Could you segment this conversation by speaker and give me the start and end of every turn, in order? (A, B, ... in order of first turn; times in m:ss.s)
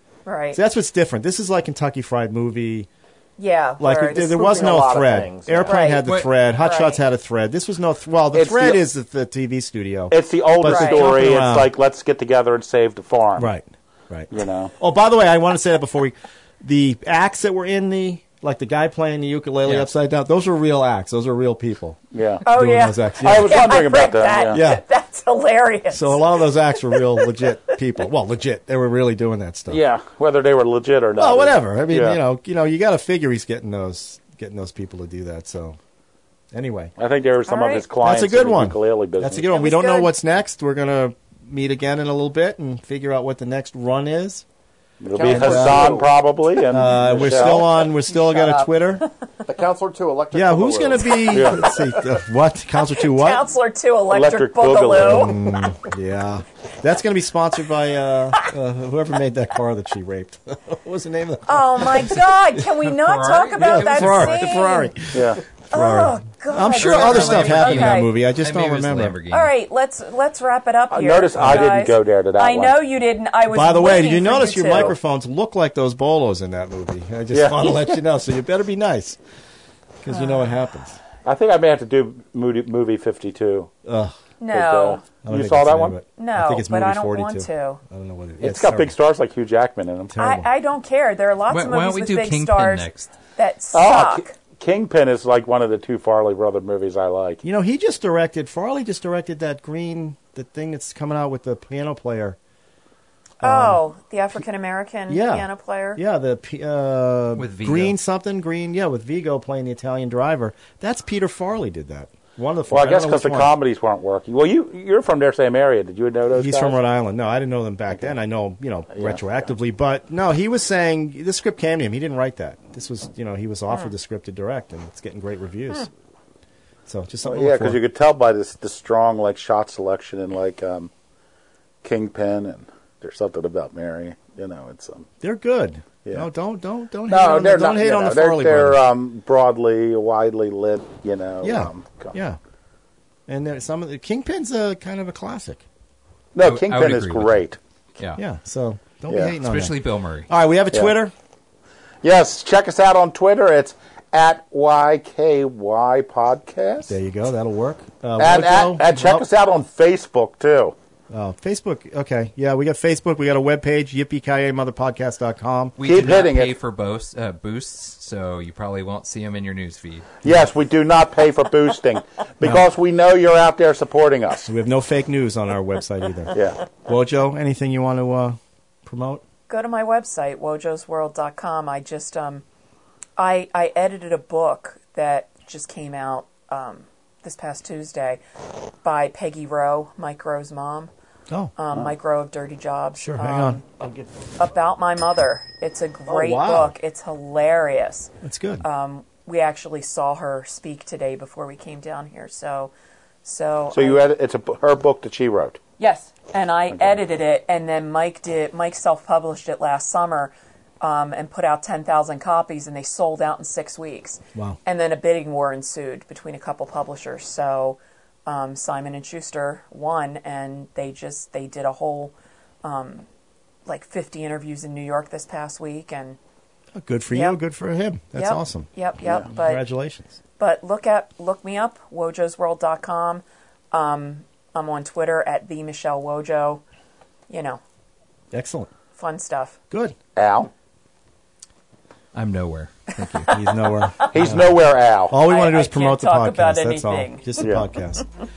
0:00.3-0:00.6 A
0:00.5-0:02.9 B
0:03.4-0:04.8 A
0:03.8-0:11.7 B
0:04.2-0:05.8 C
0:05.6-0:07.0 A
0:06.0-0:06.3 D
0:08.3-0:08.8 E
0:10.1-0:13.5 E
0:10.6-0:11.1 A
0:13.4-0:23.7 B
0:14.3-0:14.7 E
0:19.6-0:19.9 D
0:22.1-0:22.4 E
0:22.4-0:27.3 A
0:23.2-0:24.6 E
0:24.5-0:24.8 B
0:25.9-0:29.8 B
0:29.7-0:32.2 E
0:31.2-0:35.8 B
0:36.5-0:36.9 B
0:37.0-0:39.4 E
0:37.5-0:37.9 A
0:38.0-0:44.4 B
0:39.5-0:40.1 A
0:45.0-0:47.6 E
0:45.1-0:46.1 C
0:45.2-0:46.1 B
0:46.7-0:49.1 B
0:46.9-0:47.6 C
0:48.1-0:48.7 A
0:49.4-0:52.0 C
0:50.3-0:53.4 B
0:51.3-0:51.6 E
0:52.9-0:55.5 A
0:54.1-0:55.5 E
0:54.9-1:02.2 B
1:01.5-1:04.9 A
1:02.6-1:04.6 D
1:03.6-1:09.2 B
1:05.1-1:05.4 E
1:05.7-1:08.1 A
1:06.8-1:09.5 D
1:09.3-1:15.0 A
1:10.9-1:12.8 E
1:11.4-1:11.7 B
1:13.5-1:19.2 B
1:17.3-1:17.9 E
1:20.0-1:21.0 B
1:21.2-1:23.7 E
1:23.8-1:24.2 B
1:24.4-1:25.0 A
1:24.5-1:26.0 E
1:25.2-1:29.0 B
1:26.2-1:27.8 A
1:28.4-1:30.2 E
1:30.1-1:30.5 B
1:30.2-1:34.3 A
1:31.5-1:33.1 D
1:33.7-1:37.4 E
1:37.4-1:42.4 B
1:43.4-1:46.0 A
1:43.4-1:43.8 B
1:45.1-1:53.5 B
1:47.4-1:48.0 D
1:52.7-1:56.8 E
1:56.3-2:05.9 B
1:58.9-1:59.2 E
2:06.9-2:07.8 B
2:07.2-2:10.9 E
2:11.8-2:15.1 E
2:15.2-2:18.8 B
2:17.1-2:22.2 E
2:21.4-2:22.4 B
2:23.3-2:25.6 B
2:26.3-2:27.6 E
2:26.4-2:27.4 D
2:28.2-2:29.8 B
2:29.4-2:30.3 D
2:30.3-2:31.1 B
2:32.0-2:37.0 E
2:36.9-2:39.3 B
2:38.2-2:40.8 E
2:41.1-2:45.8 B
2:45.8-2:50.2 D
2:45.8-2:46.5 E
2:50.2-2:54.5 E
2:54.5-2:59.2 B
2:56.3-2:56.6 E
2:59.5-3:02.4 A
3:03.2-3:08.2 A
3:08.8-3:10.9 A
3:11.3-3:11.9 B
3:11.6-3:13.6 A
3:13.0-3:14.2 B
3:14.4-3:22.7 A
3:16.1-3:16.8 B
3:18.2-3:18.6 B
3:23.2-3:24.0 A
3:23.7-3:25.6 E
3:25.8-3:43.1 A
3:43.7-3:46.2 A
3:46.8-3:48.7 B
3:47.1-3:47.4 A
3:48.2-3:49.6 A
3:49.3-3:50.2 B
3:50.4-3:56.6 A
3:57.3-3:57.6 A
3:58.3-3:58.7 B
3:59.0-3:59.6 A
3:59.7-4:00.0 B
4:00.2-4:00.5 E
4:02.1-4:03.3 D
4:03.2-4:04.6 B
4:04.1-4:05.2 E
4:05.1-4:08.0 B
4:05.2-4:07.5 A
4:07.4-4:07.7 E